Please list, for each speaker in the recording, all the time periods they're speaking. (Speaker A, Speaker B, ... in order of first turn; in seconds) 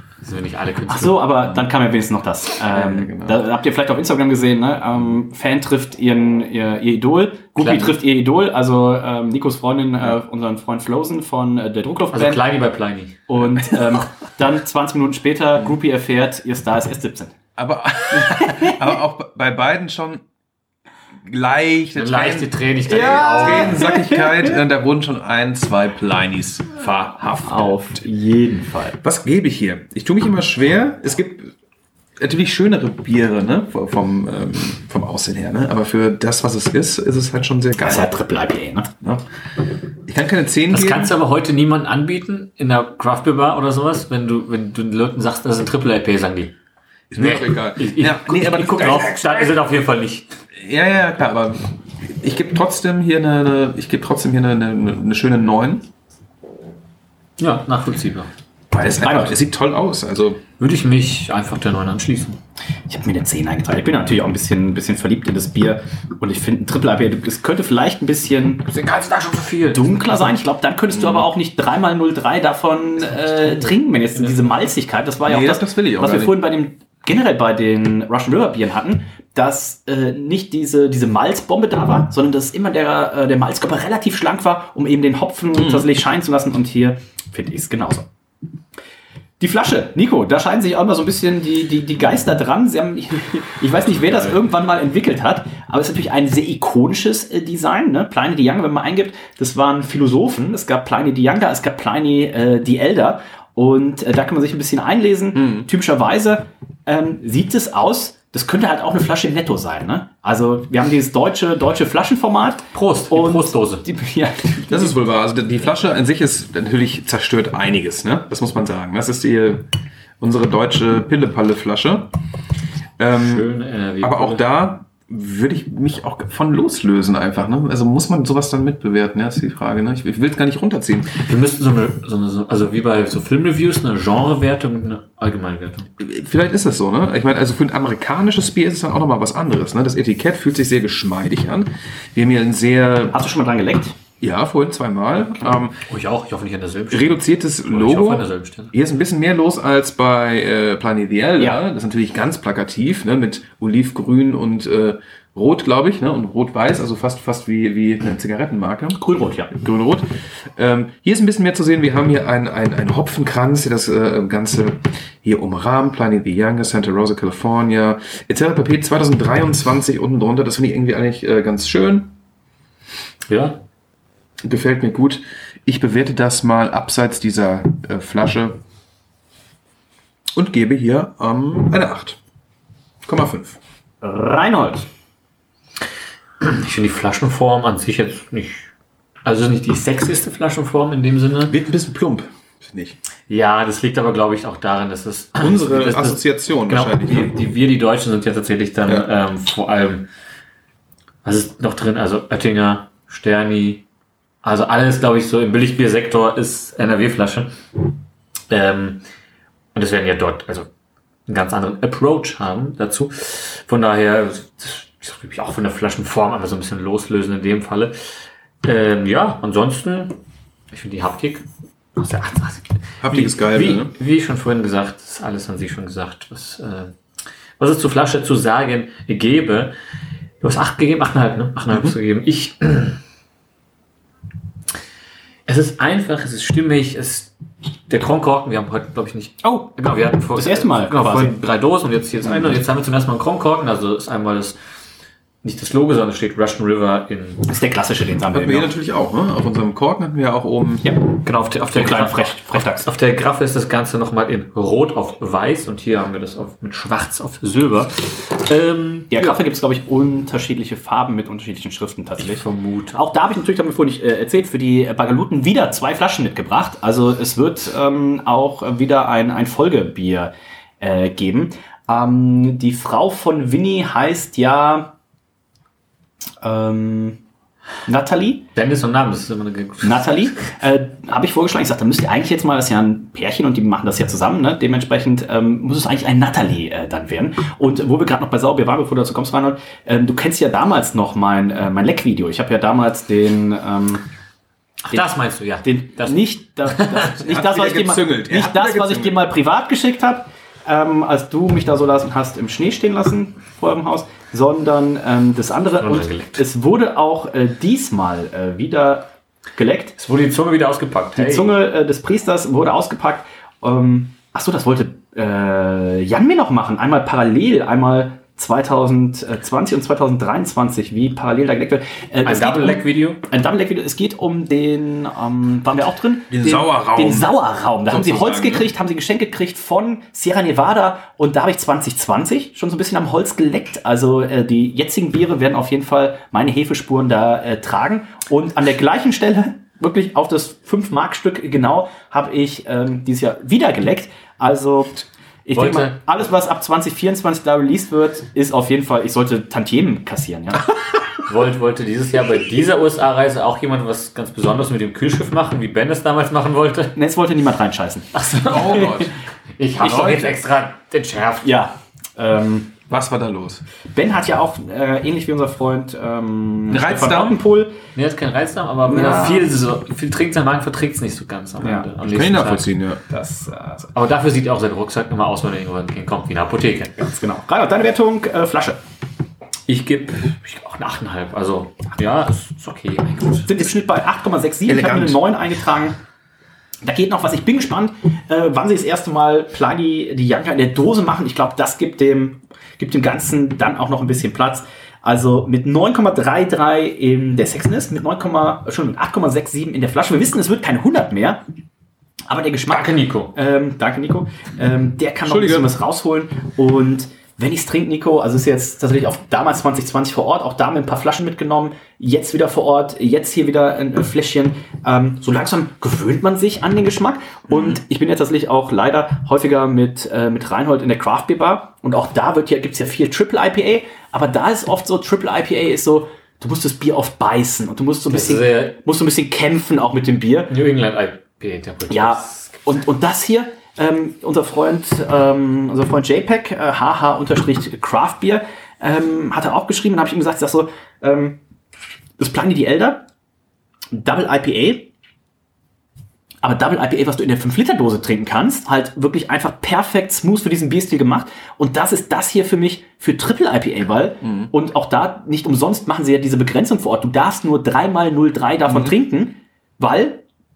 Speaker A: 0.2-1.6, 7.6-8.0, 12.1-13.3, 22.0-23.9, 40.7-46.5, 47.2-50.3, 57.4-58.3, 60.6-62.4, 68.7-69.9, 73.1-74.5, 112.7-113.8, 123.1-124.5, 131.2-135.9, 145.9-148.7, 173.3-173.6, 186.4-188.7, 189.2-191.6, 193.3-200.1, 201.2-203.8, 204.4-207.6, 208.5-209.0, 209.8-210.7, 211.3-217.9, 218.6-220.2, 220.7-227.0, 227.6-229.7, 230.4-233.0, 235.5-237.3, 237.9-244.6, 245.4-247.4, 251.2-259.4, 262.2-263.0, 278.6-280.2, 294.9-297.0, 305.8-306.4, 310.0-311.5, 322.2-323.2, 345.6-346.0, 351.2-356.9, 358.1-361.6, 367.9-372.7, 373.9-376.9, 379.7-383.7, 402.7-403.3, 428.1-428.8, 430.5-432.5
Speaker B: 0.9-12.4, 13.3-17.3, 18.3-18.8, 22.9-24.6, 27.4-29.0, 37.8-38.9, 59.0-59.4, 62.9-68.7, 69.7-88.1, 89.4-115.0, 143.1-144.0, 158.9-159.5, 184.0-184.9, 240.3-241.4, 247.5-248.7, 251.6-252.9, 259.1-274.9, 276.4-277.2, 277.9-278.4, 279.8-294.0, 295.6-310.0, 311.2-350.6, 356.9-358.9, 359.8-360.3, 361.4-362.7, 363.9-367.8, 368.9-369.5, 371.6-371.9, 373.1-373.9, 377.0-378.8, 383.5-386.0, 386.8-401.4, 402.3-430.5, 431.9-441.4, 442.2-443.0, 443.9-444.9, 446.4-460.2
Speaker C: 2.7-3.4, 17.6-20.2, 21.2-28.0, 29.0-31.5, 32.2-38.1, 40.1-41.1, 47.1-49.6, 50.5-55.9, 58.7-60.4, 71.0-71.2, 75.3-76.4, 85.5-85.9, 105.3-105.7, 114.7-119.7, 120.2-122.1, 123.0-123.5, 124.0-131.2, 136.0-143.2, 144.2-145.8, 146.9-159.0, 159.5-172.1, 174.4-178.6, 180.4-182.2, 183.0-183.6, 191.5-193.0, 195.4-197.3, 223.0-223.9, 231.7-232.0, 248.3-250.8, 297.2-299.2, 326.3-327.3, 327.9-328.7, 358.5-359.1, 359.9-360.4, 362.9-363.6, 366.7-367.4, 372.0-373.0, 384.7-385.2, 405.2-405.7, 417.5-417.8, 454.2-454.5, 458.7-458.9